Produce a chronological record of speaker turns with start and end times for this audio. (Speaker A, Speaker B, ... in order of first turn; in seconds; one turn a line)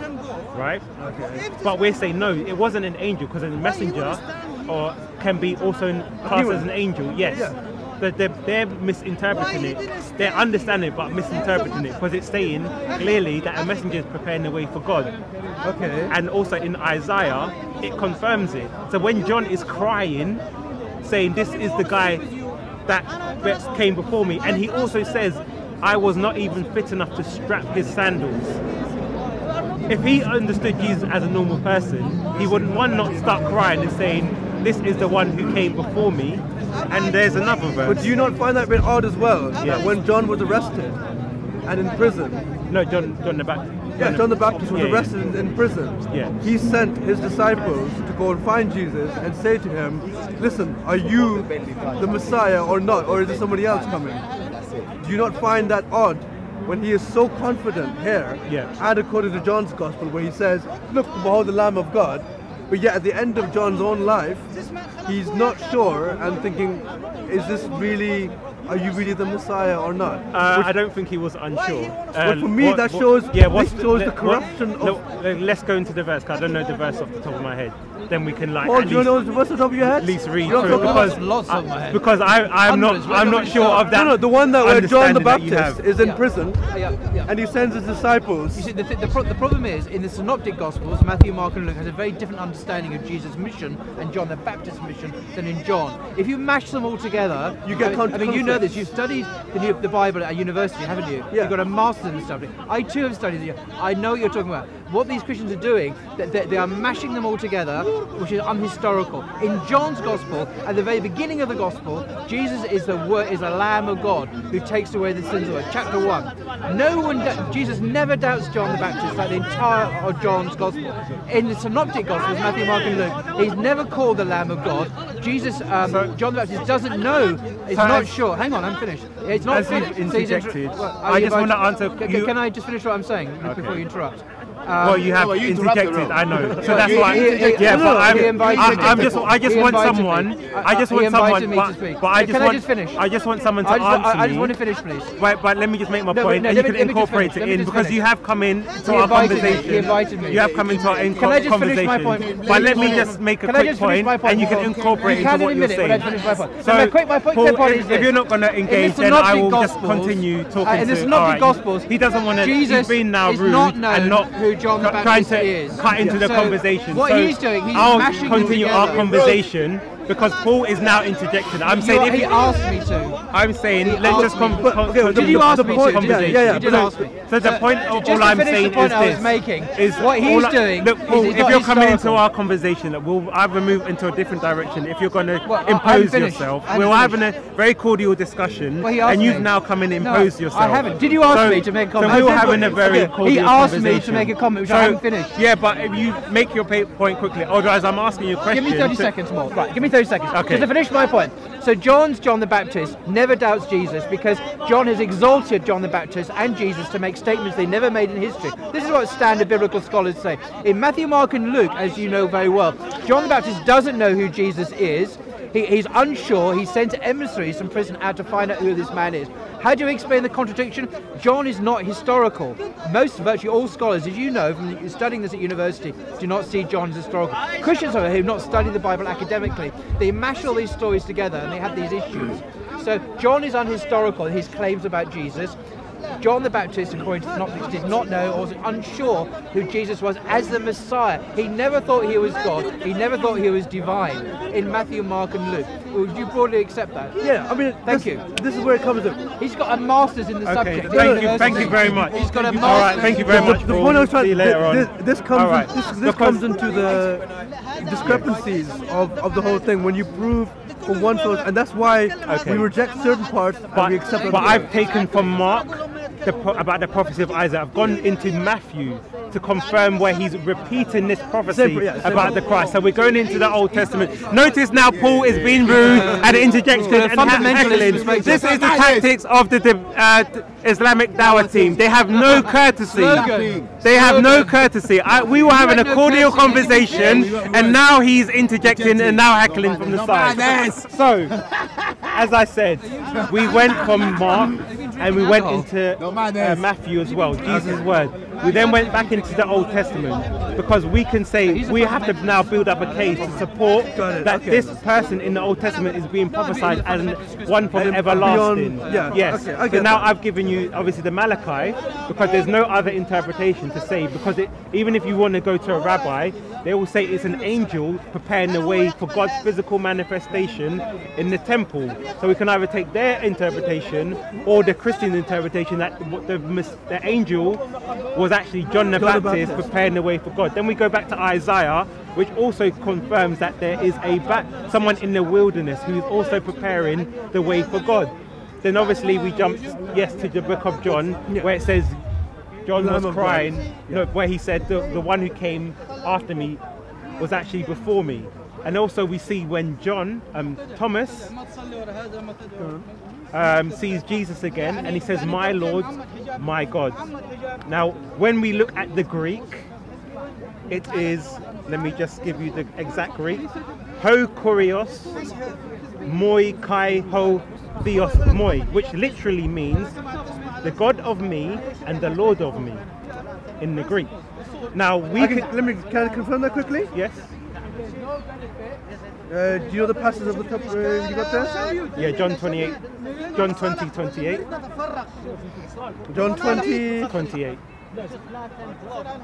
Speaker A: 0.5-0.8
Speaker B: 1.0-1.4
Speaker A: 1.6-15.1
Speaker B: 6.2-6.7
Speaker B: 7.2-7.6
Speaker B: 15.6-16.1
Speaker A: 16.1-20.4
Speaker A: 21.0-22.2
Speaker A: 22.9-28.6
Speaker A: 29.9-38.1
Speaker B: 37.9-41.0
Speaker A: 39.6-39.9
Speaker B: 41.6-42.5
Speaker A: 42.7-45.2
Speaker B: 44.0-54.2
Speaker A: 46.1-46.4
Speaker B: 55.0-64.5
Speaker A: 58.5-58.7
Speaker B: 65.0-70.7
Speaker A: 70.3-79.2
Speaker B: 72.2-75.0
Speaker B: 78.6-81.2
Speaker A: 79.8-85.8
Speaker C: 80.5-83.9
Speaker B: 83.9-86.6
Speaker C: 86.0-87.3
Speaker B: 87.2-88.7
Speaker C: 88.5-135.8
Speaker B: 97.7-98.9
Speaker B: 101.3-101.6
Speaker A: 125.8-126.1
Speaker A: 127.7-128.1
Speaker A: 129.5-132.3
Speaker A: 133.4-133.8
Speaker A: 134.8-144.6
Speaker C: 136.4-143.1
Speaker B: 137.7-138.8
Speaker C: 143.6-145.1
Speaker A: 145.2-172.4
Speaker C: 146.1-148.0
Speaker C: 148.8-169.4
Speaker C: 171.7-173.2
Speaker A: 173.3-199.1
Speaker C: 173.8-182.2
Speaker B: 174.1-177.1
Speaker C: 185.5-187.2
Speaker C: 188.8-195.4
Speaker B: 192.1-192.8
Speaker C: 198.5-235.6
Speaker A: 200.3-200.7
Speaker C: 236.2-247.2
Speaker B: 247.2-249.2
Speaker C: 247.8-248.2
Speaker C: 249.4-253.7
Speaker A: 250.4-256.5
Speaker B: 250.9-251.4
Speaker B: 253.2-264.7
Speaker A: 258.0-258.3
Speaker A: 262.2-262.7
Speaker A: 263.7-291.4
Speaker B: 271.5-272.4
Speaker C: 275.7-278.9
Speaker B: 275.8-276.3
Speaker C: 282.9-284.6
Speaker C: 285.3-287.7
Speaker A: 292.0-327.6
Speaker B: 297.4-297.8
Speaker C: 301.5-302.4
Speaker B: 303.9-304.8
Speaker B: 307.7-310.1
Speaker A: 328.1-342.0
Speaker B: 329.0-329.7
Speaker B: 341.3-341.5
Speaker A: 342.6-346.6
Speaker B: 342.8-344.1
Speaker A: 347.2-351.3
Speaker B: 352.6-352.9
Speaker A: 353.3-357.1
Speaker A: 357.6-359.7
Speaker A: 360.7-363.4
Speaker A: 364.0-365.2
Speaker A: 366.0-370.0
Speaker A: 370.6-372.8
Speaker A: 373.6-374.1
Speaker A: 374.7-375.5
Speaker B: 375.2-376.9
Speaker A: 376.9-377.3
Speaker B: 379.3-381.6
Speaker A: 382.0-382.8
Speaker A: 383.4-384.4
Speaker B: 386.1-387.1
Speaker A: 387.1-387.6